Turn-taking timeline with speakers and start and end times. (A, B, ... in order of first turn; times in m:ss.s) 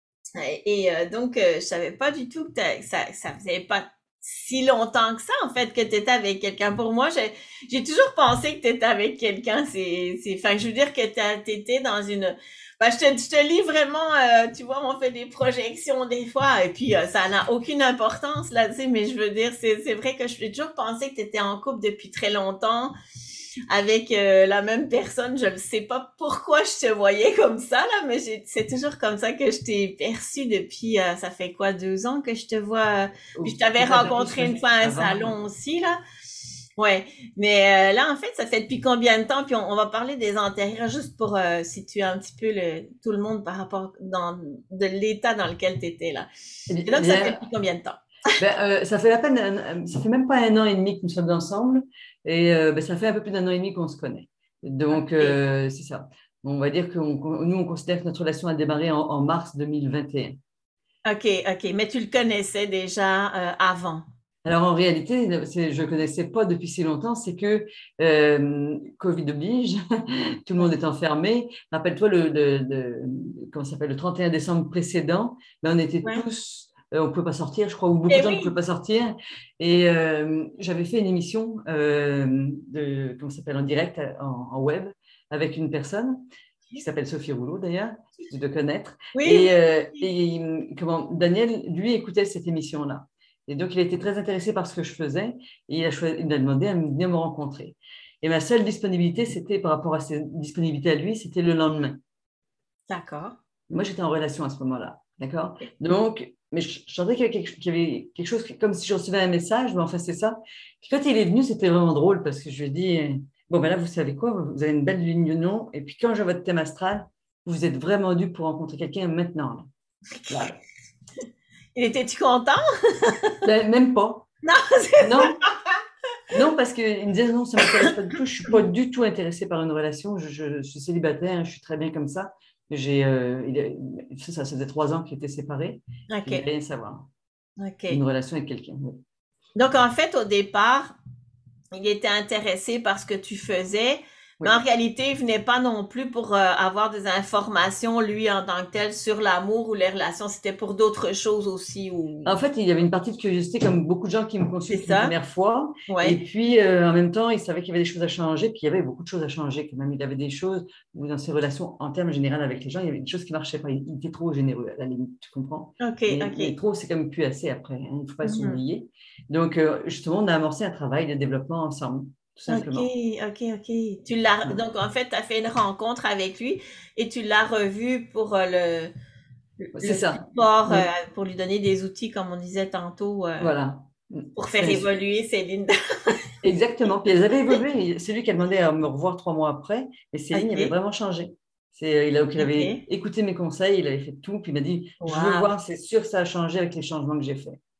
0:00.4-0:22.9 A
0:23.7-0:36.0 A
0:33.3-0:35.3 B
0:36.8-0:46.3 A
0:46.7-0:47.4 B
0:46.8-0:48.3 A
0:48.4-1:00.4 B
0:54.9-0:55.4 A
1:01.0-1:04.0 A
1:04.4-1:42.0 B
1:18.1-1:18.5 A
1:29.1-1:29.6 A
1:42.9-1:43.4 A
1:43.7-1:59.7 B
2:00.2-2:00.5 A
2:00.3-2:00.6 B
2:01.8-2:03.4 A
2:03.4-2:04.3 B
2:04.4-2:05.4 A
2:05.0-2:05.4 B
2:06.3-2:17.1 B
2:07.6-2:07.8 A
2:16.1-2:16.4 A
2:17.6-2:18.0 A
2:17.9-2:19.0 B
2:19.6-2:20.9 A
2:21.7-2:32.3 A
2:32.2-2:52.9 B
2:34.7-2:35.1 A
2:35.9-2:36.2 A
2:45.8-2:46.5 A
2:48.2-2:48.6 A
2:52.5-2:58.9 A
2:59.6-3:03.5 A
2:59.8-3:00.9 B
3:03.4-3:04.9 B
3:04.4-3:06.2 A
3:06.4-3:17.6 B
3:10.3-3:10.7 A
3:12.4-3:12.8 A
3:15.0-3:15.5 A